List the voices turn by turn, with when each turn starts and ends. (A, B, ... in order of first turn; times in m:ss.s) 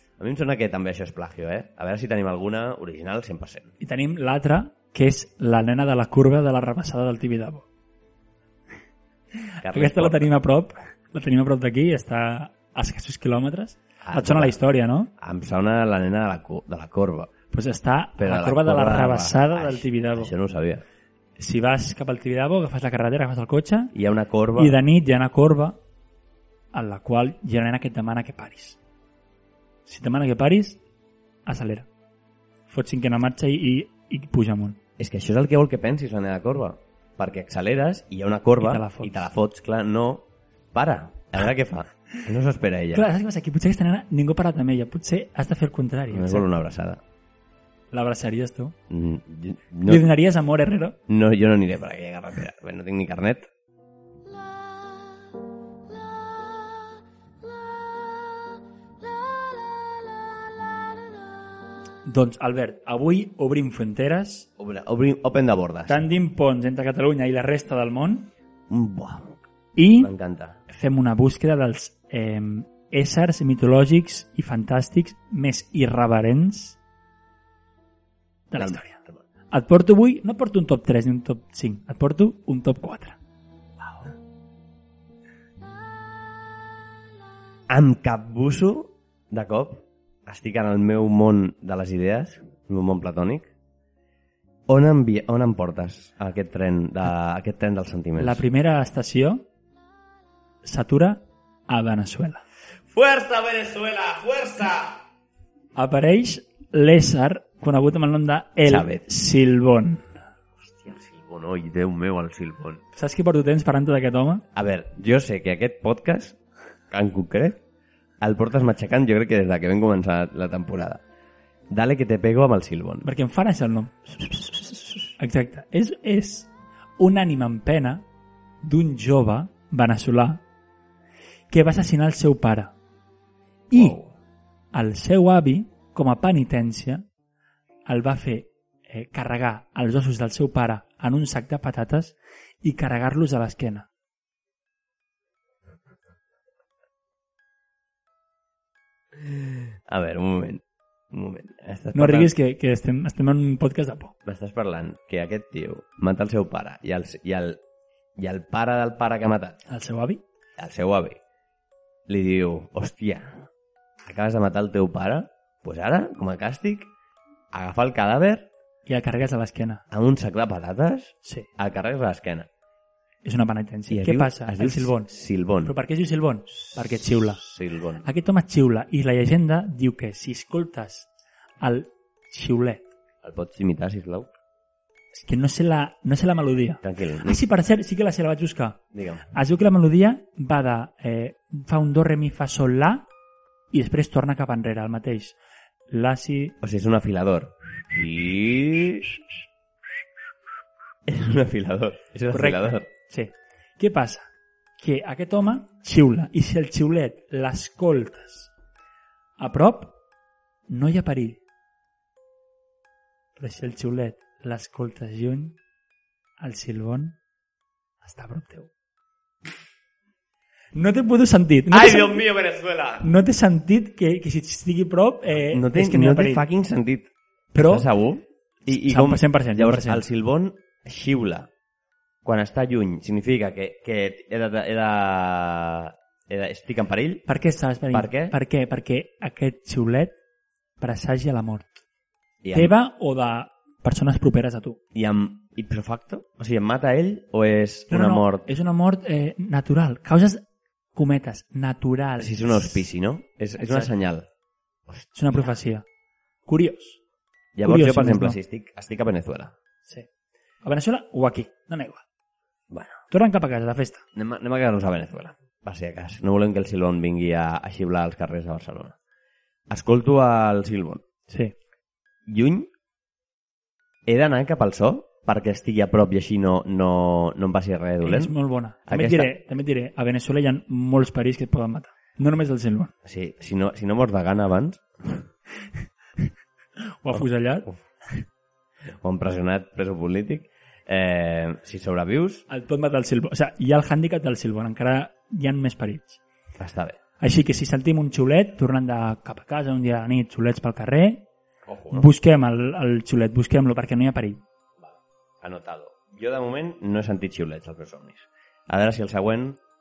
0:00.2-0:03.7 A
0:03.8-0:07.6 B
0:09.6-0:10.3 A
0:09.6-0:15.1 B
0:14.0-0:14.6 A
0:15.1-0:17.3 A
0:17.5-0:20.3 B
0:18.2-0:20.8 A
0:21.4-0:23.9 B
0:23.9-0:24.8 A
0:24.6-0:25.8 B
0:26.7-0:28.8 B
0:29.8-0:30.8 B
0:31.4-0:31.9 B
0:32.7-0:34.8 B
0:35.0-0:43.1 A
0:38.6-0:39.3 B
0:42.9-0:46.4 B
0:46.1-0:47.0 A
0:47.9-0:48.7 B
0:48.9-0:50.0 A
0:49.8-0:51.0 B
0:51.1-0:53.5 A
1:02.0-1:04.5 B
1:04.6-1:06.0 A
1:05.9-1:08.3 B
1:08.7-1:09.4 A
1:09.8-1:10.1 B
1:10.0-1:10.6 A
1:10.7-1:16.8 B
1:18.5-1:19.0 B
1:18.6-1:19.2 A
1:19.5-1:23.2 B
1:23.8-1:24.1 A
1:27.7-1:33.5 A
1:34.7-1:38.4 A
1:38.2-1:39.4 B
1:40.6-1:42.4 B
1:42.9-1:45.0 A
1:45.8-1:50.1 B
1:48.6-1:49.0 A
1:50.6-1:52.8 A
1:52.9-1:54.4 B
1:54.5-1:56.4 A
1:56.9-1:57.6 A
1:58.2-2:01.0 A
2:01.7-2:03.1 A
2:03.0-2:08.0 B
2:08.6-2:10.4 B
2:11.5-2:12.7 B
2:13.7-2:14.0 B
2:13.7-2:14.1 A
2:14.7-2:17.0 B
2:17.8-2:23.9 B
2:29.2-2:32.3 A
2:31.9-2:34.1 B
2:34.2-2:37.6 A
2:38.2-2:39.6 A
2:39.7-2:40.2 B
2:40.6-2:41.2 A
2:42.1-2:43.5 A
2:44.0-2:46.9 A
2:47.5-2:48.5 A
2:48.8-2:49.8 B
2:49.9-2:52.5 A
2:53.2-2:55.1 B
2:53.9-2:55.7 A
2:55.6-2:57.4 B
2:56.6-2:58.0 A
2:58.0-3:01.1 B
3:01.6-3:02.9 B
3:03.2-3:04.3 A
3:05.1-3:13.0 B
3:06.8-3:07.4 A
3:08.9-3:09.3 A
3:13.7-3:15.4 B
3:15.9-3:16.6 B
3:16.6-3:19.2 A
3:21.1-3:22.9 A
3:22.3-3:28.5 B
3:29.4-3:29.9 B
3:30.7-3:31.4 B
3:33.4-3:35.6 B
3:36.4-3:37.2 B
3:38.0-3:38.7 B
3:40.7-3:42.2 B
3:41.7-3:43.1 A
3:43.0-3:46.4 B
3:45.5-3:51.5 A
3:47.5-3:47.9 B
3:48.7-3:50.0 B
3:52.2-3:57.2 A
3:57.3-4:00.1 B
3:57.9-3:58.4 A
4:00.8-4:01.8 B
4:02.4-4:02.7 A
4:02.5-4:04.8 B
4:04.9-4:08.5 A
4:07.9-4:12.8 B
4:12.2-4:14.3 A
4:13.6-4:13.9 B
4:14.9-4:15.1 A
4:15.1-4:15.8 B
4:16.5-4:17.0 B
4:17.5-4:19.5 A
4:17.6-4:18.4 B
4:20.6-4:22.0 B
4:22.7-4:23.0 A
4:23.1-4:24.0 B
4:24.1-4:29.0 A
4:29.7-4:31.0 A
4:31.3-4:31.5 B
4:32.3-4:32.7 A
4:34.0-4:38.3 A
4:38.0-4:42.9 B
4:38.8-4:39.3 A
4:43.0-4:45.3 A
4:46.8-4:47.7 B
4:49.0-4:52.4 A
4:52.5-4:56.2 B
4:56.6-4:57.0 A
4:57.2-5:01.2 B
5:01.6-5:02.1 A
5:01.9-5:04.4 B
5:05.4-5:09.6 A